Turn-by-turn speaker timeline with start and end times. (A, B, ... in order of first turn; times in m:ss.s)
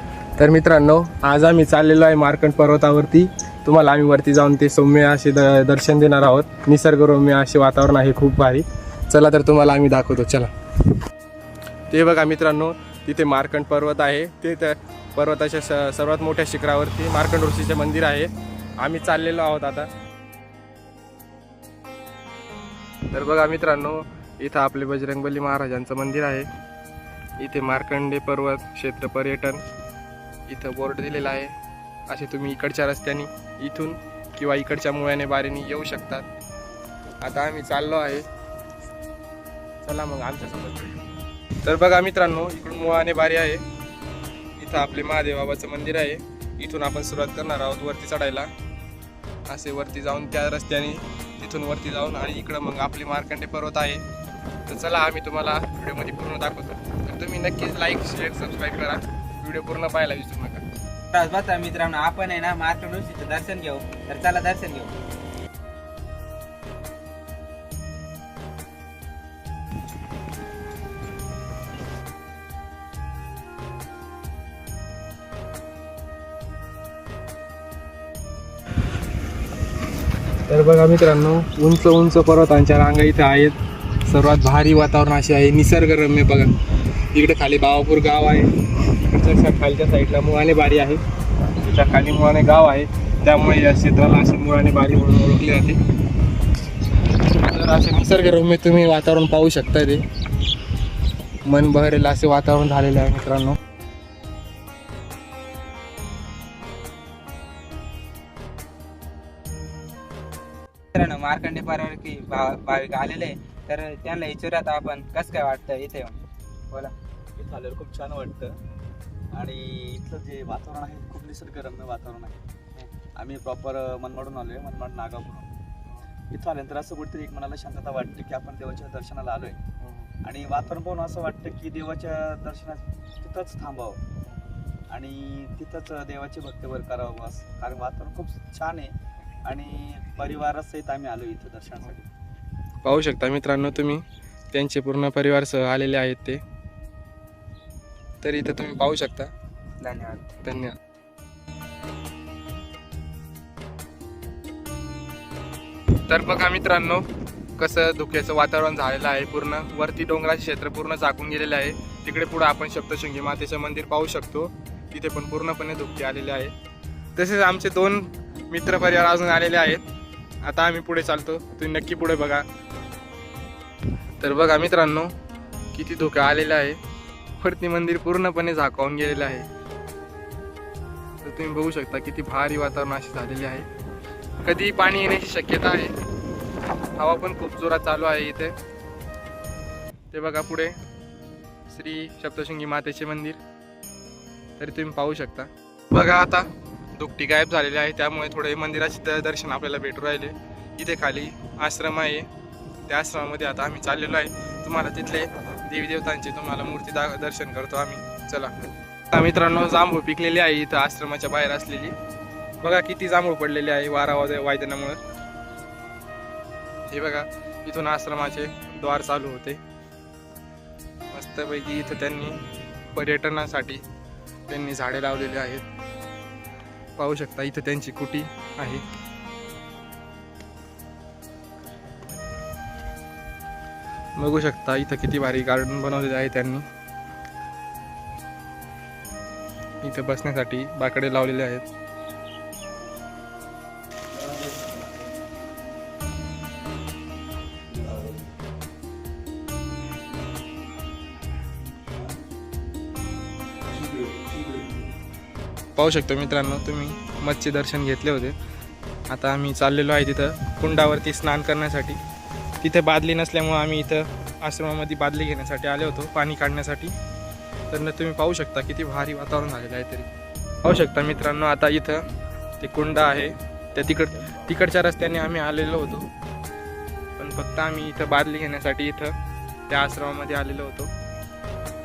0:00.4-0:10.5 A
0:11.9-0:19.9 A
0:23.1-0:26.5 A
0:27.4-0:29.6 A
0:30.5-0:31.6 A
0:32.1-0:36.3 A
0:37.2-0:38.3 A
0:39.8-0:41.0 A
0:41.6-0:43.6 A
0:44.6-0:48.5 A
0:49.5-0:54.0 A
0:54.7-1:00.6 A
1:01.1-1:04.9 B
1:20.5-1:26.5 A
1:27.1-1:35.8 A
1:37.2-1:40.0 A
1:41.4-1:43.6 A
1:51.0-1:56.2 B
1:57.4-1:58.6 C
1:59.3-2:05.5 C
2:06.3-2:09.6 C
2:09.8-2:10.1 A
2:10.2-2:14.0 C
2:14.9-2:22.1 C
2:22.8-2:26.4 A
2:28.2-2:29.3 A
2:29.8-2:30.2 B
2:30.0-2:30.8 A
2:36.0-2:46.5 A
2:47.2-2:49.8 A
2:50.4-2:52.4 A
2:54.2-2:55.1 A
2:55.7-2:56.8 A
2:57.4-2:59.5 A
3:01.2-3:03.7 A
3:04.4-3:06.0 A
3:07.0-3:08.6 A
3:10.1-3:10.8 A
3:11.7-3:13.4 A
3:14.6-3:22.3 A
3:22.9-3:28.5 A
3:29.1-3:32.0 A
3:32.6-3:35.0 A
3:36.9-3:39.6 A
3:41.1-3:42.4 A
3:42.9-3:43.8 A
3:44.5-3:45.6 A
3:47.0-3:48.8 A
3:54.2-3:56.6 A
3:59.8-4:01.7 A
4:04.3-4:04.7 C
4:15.8-4:18.4 A
4:19.1-4:22.0 A
4:22.6-4:26.9 A
4:27.7-4:30.1 A
4:30.6-4:32.0 A
4:32.6-4:36.1 A
4:37.2-4:39.1 A
4:39.7-4:40.9 A